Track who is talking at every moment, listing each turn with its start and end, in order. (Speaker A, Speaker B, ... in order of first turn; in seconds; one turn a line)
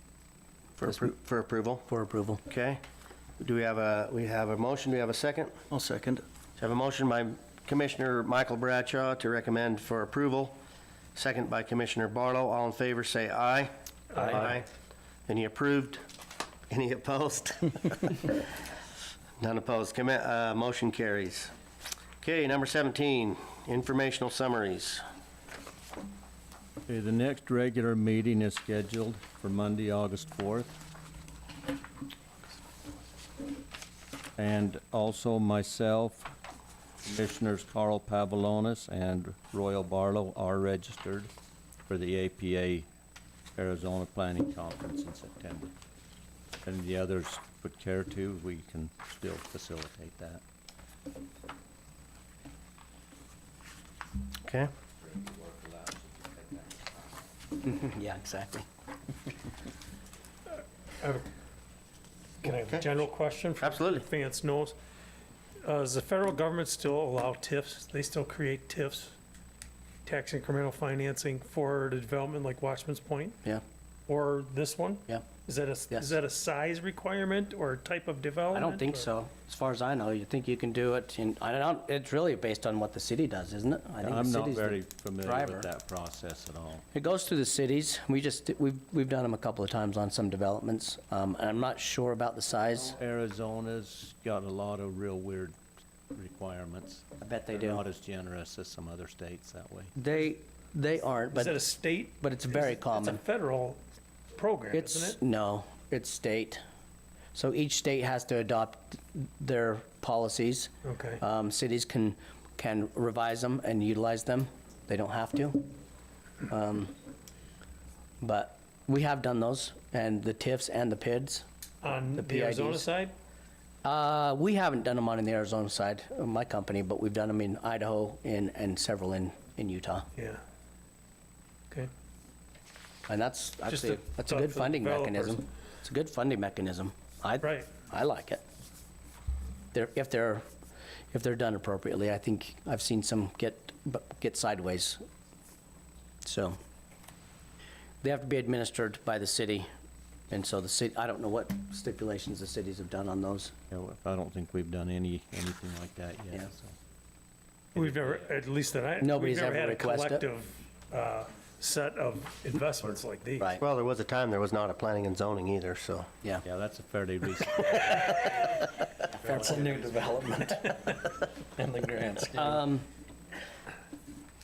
Speaker A: 0.8-1.9
Speaker B: 1.9-2.4
Speaker A: 2.5-2.8
Speaker A: 3.4-5.6
Speaker C: 5.7-6.2
Speaker A: 6.6-10.6
Speaker A: 11.1-14.7
Speaker D: 14.1-14.6
Speaker A: 15.3-16.0
Speaker A: 16.7-18.5
Speaker A: 19.4-21.5
Speaker A: 22.2-25.0
Speaker E: 26.9-30.8
Speaker E: 34.4-36.3
Speaker E: 37.0-41.3
Speaker E: 41.9-42.9
Speaker E: 43.6-45.7
Speaker E: 46.6-50.4
Speaker A: 54.4-54.7
Speaker E: 55.2-56.6
Speaker B: 57.6-58.7
Speaker D: 61.0-61.2
Speaker D: 62.4-64.8
Speaker A: 62.5-62.9
Speaker A: 63.6-64.0
Speaker D: 65.6-69.1
Speaker D: 70.0-73.3
Speaker D: 74.1-79.0
Speaker B: 75.9-76.2
Speaker B: 78.5-85.7
Speaker E: 84.0-86.8
Speaker B: 86.9-92.9
Speaker E: 92.9-95.5
Speaker E: 96.1-99.9
Speaker B: 97.2-97.8
Speaker B: 100.0-103.2
Speaker D: 101.4-103.8
Speaker D: 104.4-105.2
Speaker B: 104.7-106.6
Speaker B: 107.3-115.7
Speaker D: 110.8-111.2
Speaker B: 116.5-116.9
Speaker B: 118.2-121.5
Speaker D: 121.8-123.1
Speaker B: 122.1-122.9
Speaker B: 123.8-130.1
Speaker B: 133.1-138.4
Speaker D: 133.7-135.4
Speaker B: 139.7-140.4
Speaker B: 141.1-145.0
Speaker B: 146.2-146.6
Speaker B: 148.0-149.7
Speaker B: 150.3-153.5
Speaker E: 153.7-156.7
Speaker E: 157.8-158.3
Speaker D: 157.8-163.4
Speaker B: 159.0-160.3
Speaker A: 163.6-166.1
Speaker E: 166.4-168.2
Speaker E: 169.2-170.2
Speaker C: 169.3-171.0
Speaker C: 171.6-172.6
Speaker B: 172.3-172.9